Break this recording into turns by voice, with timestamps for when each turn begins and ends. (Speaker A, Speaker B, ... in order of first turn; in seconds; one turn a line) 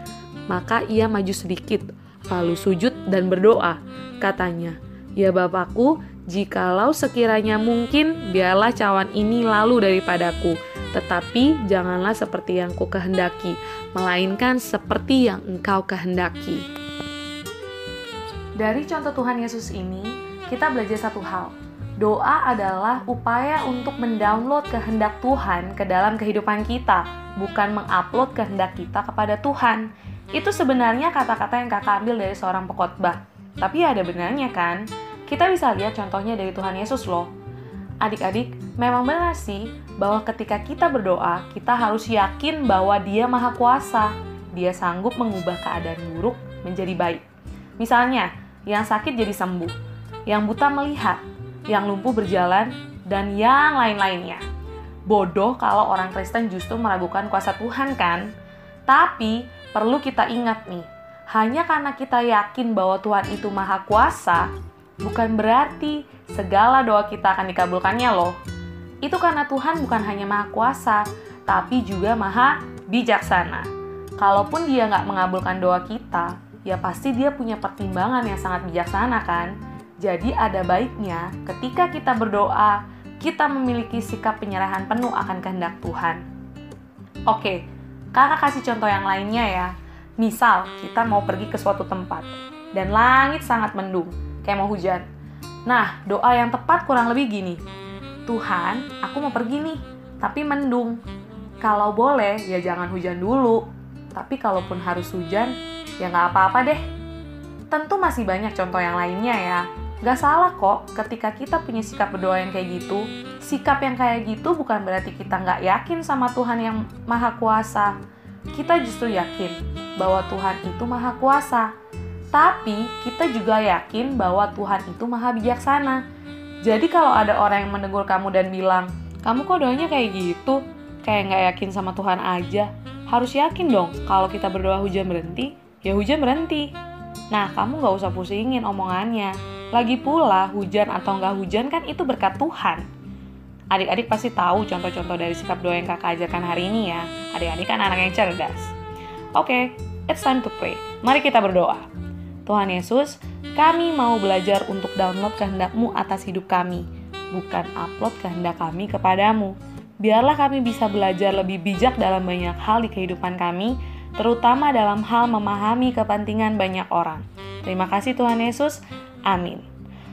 Speaker A: 0.5-16.7
Speaker A: 18.6-37.3
Speaker A: 38.0-47.2
Speaker A: 47.8-49.7
Speaker A: 50.3-54.4
Speaker A: 55.0-58.3
Speaker A: 58.9-64.5
Speaker A: 65.0-68.4
Speaker A: 69.0-86.2
Speaker A: 87.3-95.1
Speaker A: 95.7-97.6
Speaker A: 98.3-101.0
Speaker A: 101.6-106.8
Speaker A: 107.7-118.0
Speaker A: 118.5-121.7
Speaker A: 122.3-126.0
Speaker A: 126.6-136.7
Speaker A: 137.3-142.8
Speaker A: 143.7-148.7
Speaker A: 149.3-151.9
Speaker A: 152.4-169.7